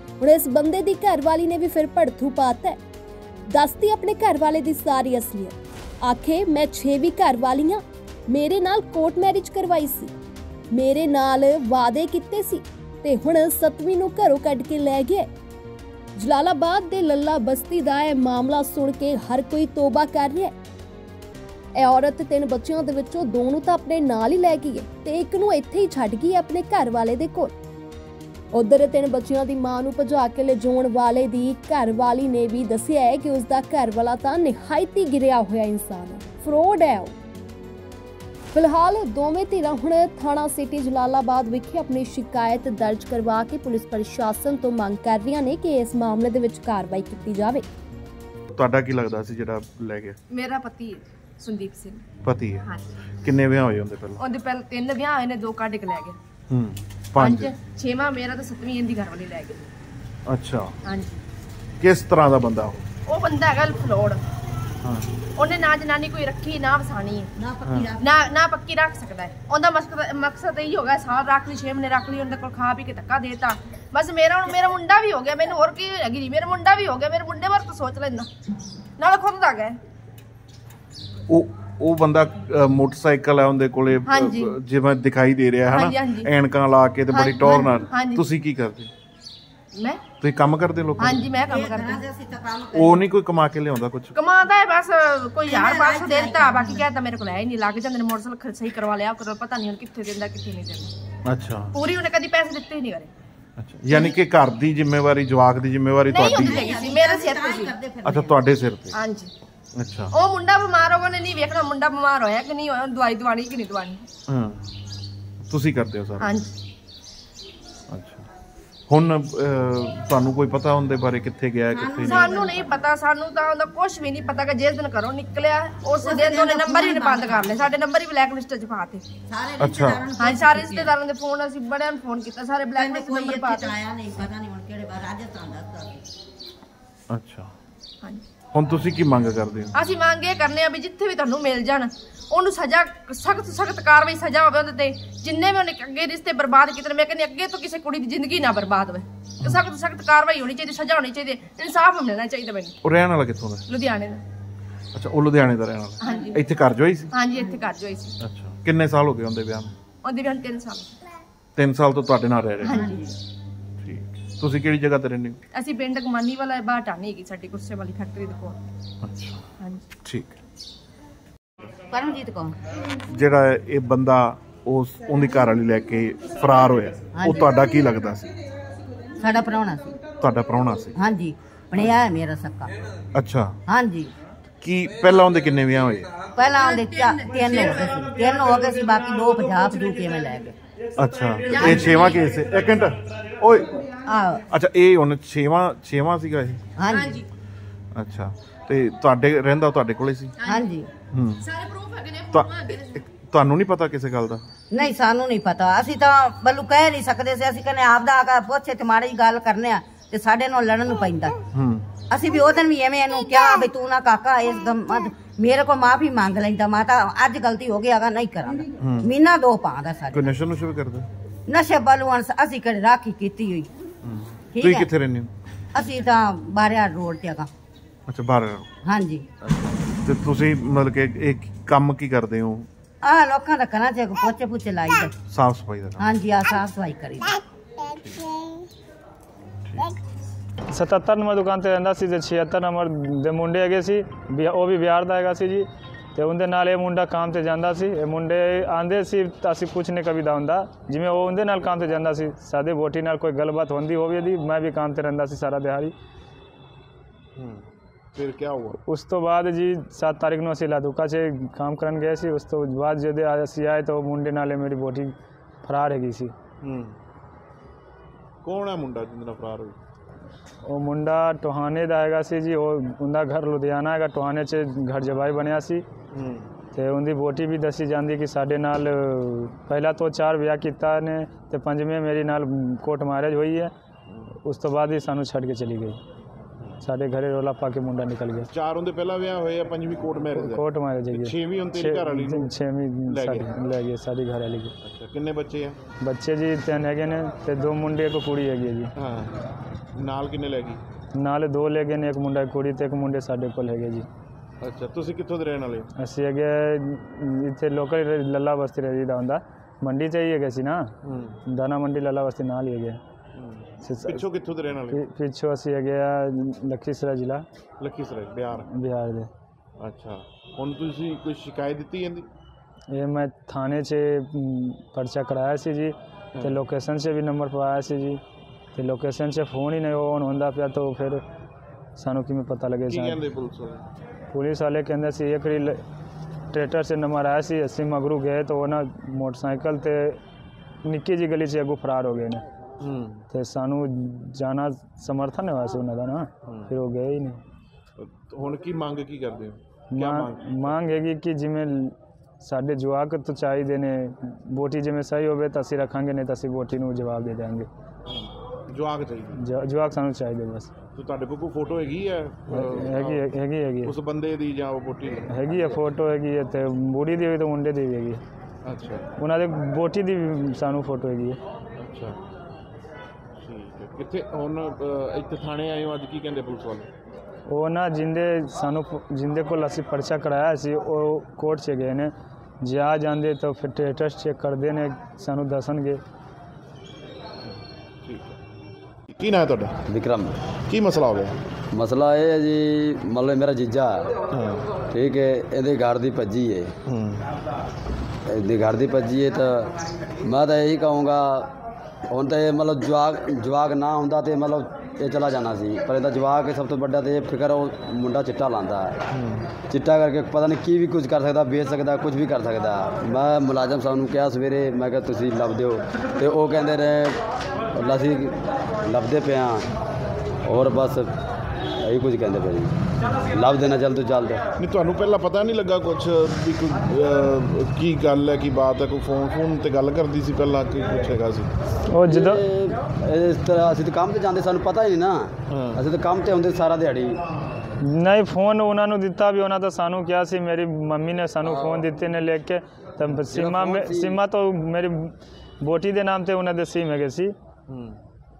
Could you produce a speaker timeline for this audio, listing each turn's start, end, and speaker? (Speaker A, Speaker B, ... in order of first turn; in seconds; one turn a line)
Speaker A: 0.2-2.8
Speaker A: 3.5-10.1
Speaker A: 10.7-15.3
Speaker A: 16.1-20.5
Speaker A: 21.7-27.5
Speaker A: 28.5-37.1
Speaker A: 38.5-47.6
Speaker B: 48.5-50.1
Speaker C: 50.3-52.0
Speaker B: 52.2-52.6
Speaker B: 53.2-54.2
Speaker C: 54.2-56.2
Speaker B: 56.5-57.5
Speaker C: 57.2-59.6
Speaker B: 60.3-60.7
Speaker C: 60.9-61.1
Speaker B: 61.8-62.8
Speaker C: 63.1-64.2
Speaker B: 64.8-65.1
Speaker C: 65.4-67.3
Speaker D: 67.4-68.0
Speaker B: 67.6-67.9
Speaker C: 68.0-78.3
Speaker C: 79.0-79.8
Speaker B: 81.3-88.9
Speaker C: 84.1-84.6
Speaker C: 85.7-86.3
Speaker C: 87.1-88.2
Speaker C: 89.7-90.0
Speaker B: 90.2-91.2
Speaker C: 91.0-92.0
Speaker D: 91.4-93.0
Speaker B: 92.7-94.2
Speaker C: 94.1-100.9
Speaker D: 95.4-96.8
Speaker B: 101.2-101.7
Speaker C: 101.7-103.1
Speaker B: 103.6-106.7
Speaker C: 103.9-104.1
Speaker C: 106.1-107.7
Speaker D: 106.3-108.4
Speaker B: 108.0-109.0
Speaker C: 108.9-109.3
Speaker B: 109.8-110.1
Speaker C: 110.1-114.1
Speaker B: 114.3-114.6
Speaker B: 115.5-116.3
Speaker C: 116.2-116.5
Speaker B: 117.9-118.2
Speaker B: 118.9-122.3
Speaker D: 121.7-122.7
Speaker C: 122.0-129.0
Speaker D: 126.0-127.7
Speaker D: 129.3-130.9
Speaker B: 129.6-130.1
Speaker C: 130.2-133.8
Speaker D: 132.8-136.1
Speaker B: 137.1-137.5
Speaker B: 138.5-139.7
Speaker C: 139.7-152.8
Speaker B: 152.8-153.7
Speaker C: 153.7-154.2
Speaker B: 154.9-157.1
Speaker C: 156.0-156.4
Speaker C: 157.1-158.2
Speaker B: 158.2-159.7
Speaker C: 160.0-160.9
Speaker B: 161.6-162.8
Speaker C: 162.6-163.1
Speaker D: 162.7-163.1
Speaker B: 163.8-165.4
Speaker C: 165.5-168.6
Speaker B: 169.0-169.4
Speaker B: 170.0-170.4
Speaker D: 171.9-172.5
Speaker B: 173.1-178.3
Speaker D: 177.1-177.4
Speaker D: 179.2-180.0
Speaker B: 180.2-181.0
Speaker D: 181.0-182.7
Speaker B: 183.1-183.6
Speaker D: 183.7-184.1
Speaker B: 184.6-186.2
Speaker D: 186.3-190.5
Speaker B: 191.0-193.8
Speaker C: 191.5-192.2
Speaker D: 191.6-191.9
Speaker D: 194.1-194.4
Speaker B: 194.5-196.6
Speaker D: 196.8-197.2
Speaker C: 196.9-197.2
Speaker B: 197.9-200.3
Speaker C: 200.4-200.7
Speaker D: 200.4-200.9
Speaker B: 201.1-201.4
Speaker C: 201.4-202.8
Speaker B: 202.3-204.4
Speaker D: 204.7-211.4
Speaker B: 211.5-211.9
Speaker D: 212.1-220.3
Speaker B: 218.8-219.1
Speaker B: 220.1-221.1
Speaker D: 221.5-223.7
Speaker B: 224.0-225.3
Speaker D: 224.5-224.9
Speaker D: 225.7-227.5
Speaker B: 228.1-228.7
Speaker D: 228.8-229.2
Speaker B: 229.4-232.7
Speaker D: 233.0-235.1
Speaker B: 235.3-236.1
Speaker D: 236.0-237.4
Speaker B: 237.8-238.2
Speaker B: 239.6-239.9
Speaker E: 240.7-255.9
Speaker B: 257.4-258.8
Speaker E: 258.8-266.3
Speaker B: 266.6-266.9
Speaker B: 268.4-269.8
Speaker E: 270.6-275.8
Speaker B: 276.1-276.5
Speaker E: 276.7-283.7
Speaker E: 284.4-286.0
Speaker E: 286.8-288.5
Speaker B: 288.5-292.5
Speaker E: 290.3-294.7
Speaker B: 293.1-293.5
Speaker B: 294.8-295.8
Speaker E: 296.0-298.9
Speaker B: 298.9-299.4
Speaker B: 299.9-300.8
Speaker E: 301.1-304.1
Speaker B: 304.6-305.9
Speaker E: 305.9-310.9
Speaker B: 311.0-311.4
Speaker E: 311.5-313.0
Speaker B: 313.4-315.0
Speaker E: 313.8-314.2
Speaker E: 314.9-317.4
Speaker B: 317.8-318.7
Speaker E: 318.6-319.3
Speaker B: 319.8-322.3
Speaker E: 322.9-328.2
Speaker B: 326.3-326.6
Speaker E: 328.7-331.2
Speaker E: 332.0-333.2
Speaker B: 332.9-333.9
Speaker E: 334.3-335.8
Speaker E: 336.5-340.2
Speaker E: 340.8-342.4
Speaker B: 342.8-343.2
Speaker E: 343.3-347.4
Speaker B: 346.4-346.7
Speaker B: 348.0-350.8
Speaker E: 349.9-357.7
Speaker B: 358.1-359.4
Speaker E: 359.4-360.7
Speaker B: 360.9-363.2
Speaker E: 362.5-363.9
Speaker B: 363.8-365.4
Speaker E: 365.3-368.2
Speaker B: 368.6-369.1
Speaker E: 369.2-371.4
Speaker B: 371.8-372.2
Speaker B: 373.4-376.9
Speaker E: 377.5-386.0
Speaker B: 388.1-388.4
Speaker B: 389.1-389.8
Speaker F: 389.9-390.3
Speaker B: 390.7-391.4
Speaker F: 391.7-394.1
Speaker B: 394.3-394.6
Speaker F: 394.9-396.7
Speaker B: 396.9-397.2
Speaker F: 398.3-401.5
Speaker F: 402.1-409.0
Speaker B: 409.1-409.5
Speaker F: 409.7-417.2
Speaker F: 417.7-419.6
Speaker F: 420.4-421.1
Speaker F: 421.8-424.4
Speaker B: 424.6-431.5
Speaker E: 431.9-432.4
Speaker F: 432.1-437.2
Speaker B: 435.5-435.8
Speaker E: 437.8-447.3
Speaker F: 441.4-441.9
Speaker F: 443.3-444.2
Speaker B: 447.7-448.0